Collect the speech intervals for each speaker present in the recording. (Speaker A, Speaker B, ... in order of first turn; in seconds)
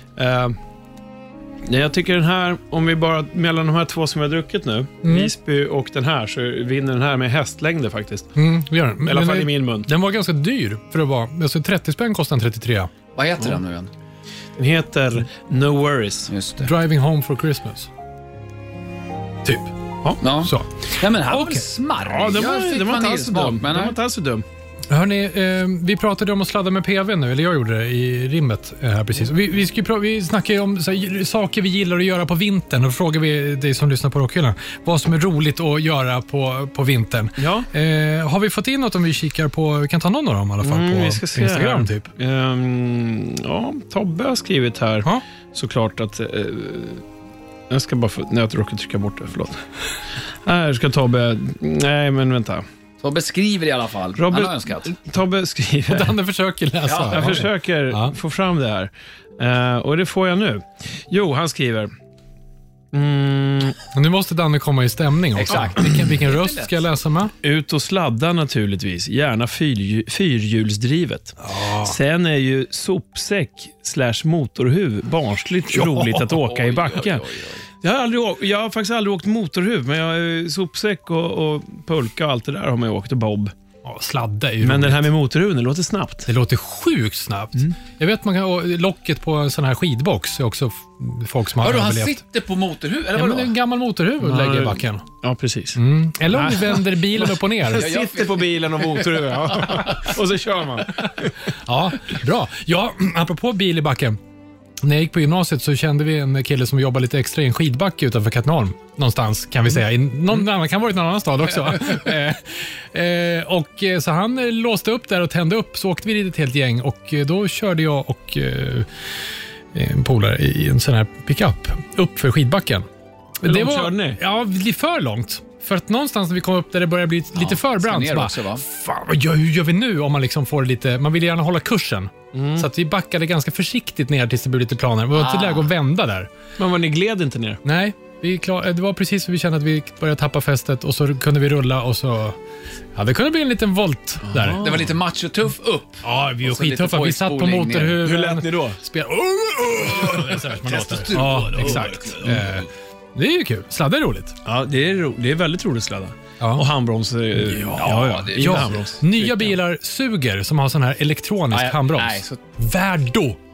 Speaker A: 0.2-0.6, 1.6-8.3, 9.1-9.9, 14.6-16.3, 22.1-24.4, 37.4-37.7, 40.6-47.0, 47.7-49.6, 50.5-52.6, 54.2-56.2, 57.1-61.9, 62.9-63.8, 67.4-77.3, 77.8-83.5, 84.6-86.3, 94.2-95.8, 96.3-101.3, 123.4-124.2, 132.3-132.7, 136.6-137.6, 144.3-144.9, 148.0-148.8, 151.1-152.2, 154.4-159.5
Speaker B: 5.0-5.3, 8.4-12.9, 16.6-17.9, 19.4-19.7, 20.4-21.6, 24.9-42.1, 55.9-58.1, 63.9-67.3, 71.4-72.0, 75.7-76.3, 83.8-85.1, 86.3-92.2, 93.2-95.0, 95.8-97.9, 101.5-104.2, 104.8-118.9, 119.7-122.9, 123.4-136.3, 137.7-142.4, 142.9-144.7, 146.0-154.4, 156.4-156.7, 157.4-163.4
Speaker C: 13.2-13.9, 16.3-16.7, 20.2-24.0, 53.0-54.9, 56.9-57.4, 65.4-66.8, 76.3-77.7, 91.6-93.5, 97.7-99.8, 127.3-128.6, 135.1-135.7, 144.6-148.0, 150.0-152.6, 157.8-158.8, 161.5-162.4